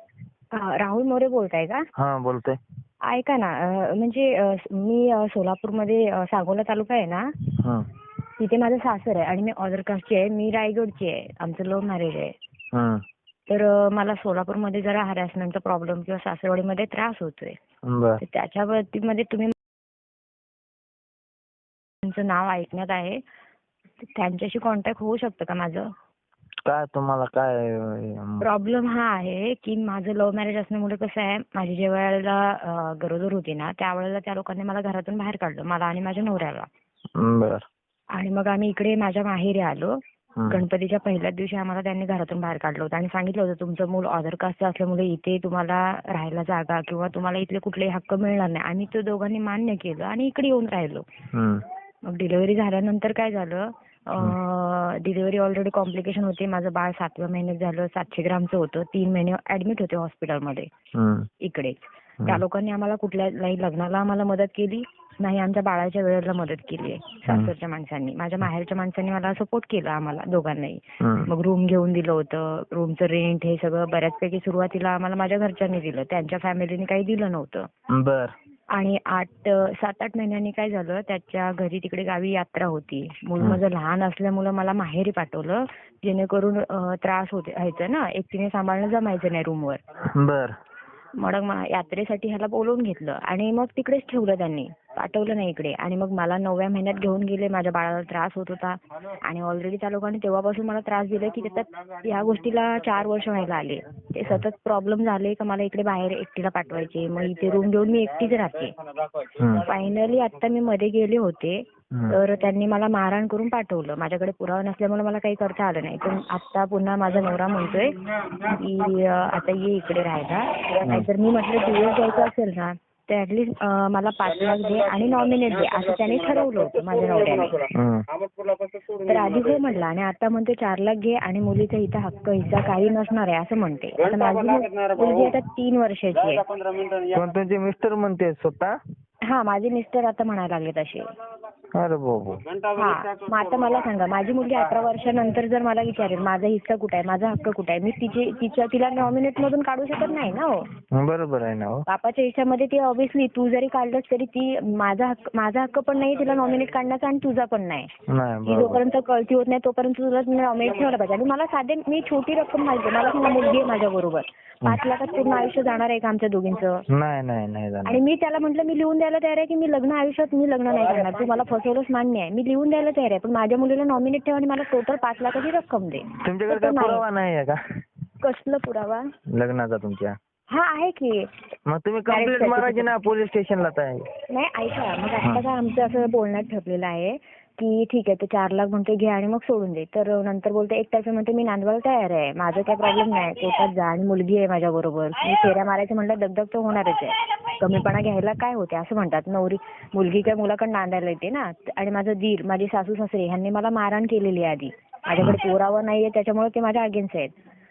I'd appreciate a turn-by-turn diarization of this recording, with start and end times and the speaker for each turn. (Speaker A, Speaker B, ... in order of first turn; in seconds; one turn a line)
Speaker A: 0.5-1.9
Speaker B: 2.0-2.6
Speaker A: 3.0-7.3
Speaker B: 7.6-7.9
Speaker A: 8.4-12.4
Speaker B: 12.7-13.0
Speaker A: 13.5-17.6
Speaker B: 17.8-18.2
Speaker A: 18.2-19.5
Speaker A: 22.0-23.2
Speaker A: 24.0-25.9
Speaker B: 26.7-28.5
Speaker A: 28.4-36.7
Speaker B: 37.2-37.7
Speaker A: 38.1-51.0
Speaker B: 40.4-40.6
Speaker B: 51.3-51.6
Speaker A: 52.0-60.7
Speaker B: 60.9-61.3
Speaker A: 61.4-77.7
Speaker B: 71.0-71.3
Speaker B: 77.9-78.3
Speaker A: 78.7-89.8
Speaker B: 90.0-90.6
Speaker A: 91.2-108.8
Speaker B: 109.4-109.7
Speaker A: 109.5-127.7
Speaker B: 111.9-112.2
Speaker B: 127.7-128.1
Speaker A: 129.1-136.5
Speaker B: 137.1-138.8
Speaker A: 139.3-141.1
Speaker B: 141.8-142.5
Speaker A: 142.7-150.7
Speaker B: 150.9-151.8
Speaker A: 151.9-157.9
Speaker B: 158.1-158.8
Speaker A: 158.5-166.9
Speaker B: 166.9-168.0
Speaker A: 167.9-177.0
Speaker B: 176.2-177.6
Speaker A: 178.2-179.1
Speaker B: 179.3-180.2
Speaker A: 180.5-181.3
Speaker B: 181.7-184.1
Speaker A: 182.1-182.9
Speaker A: 184.3-207.3